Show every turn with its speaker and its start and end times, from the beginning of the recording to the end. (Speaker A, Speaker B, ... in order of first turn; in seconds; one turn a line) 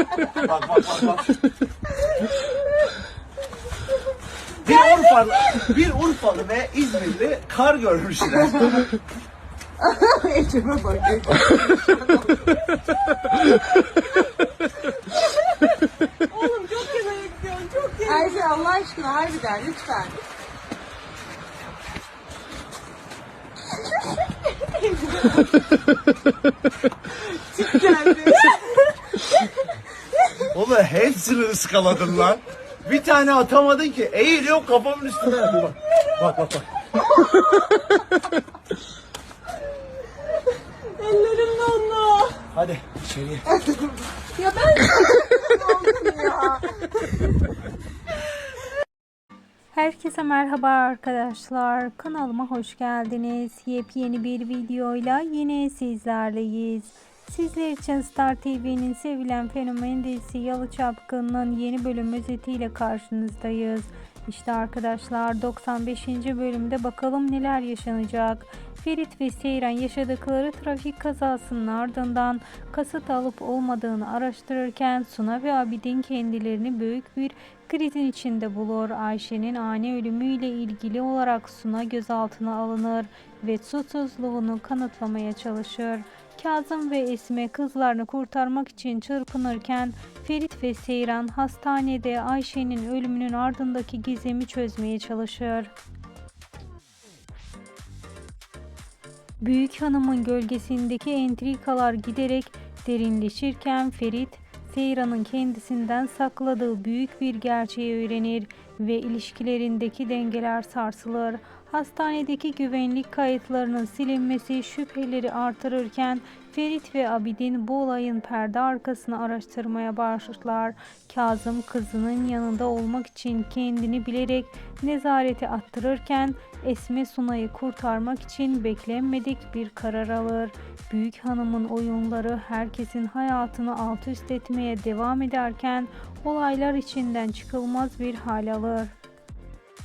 Speaker A: 0.3-1.3
Speaker A: 4.6-8.8
Speaker B: 9.8-12.5
Speaker C: 16.2-18.5
Speaker B: 18.1-20.2
Speaker C: 24.8-25.4
Speaker C: 27.1-29.4
Speaker A: 30.5-36.6
Speaker C: 40.9-42.4
Speaker A: 42.5-43.5
Speaker B: 43.5-46.7
Speaker C: 44.4-46.4
Speaker D: 49.7-95.7
Speaker D: 99.4-138.9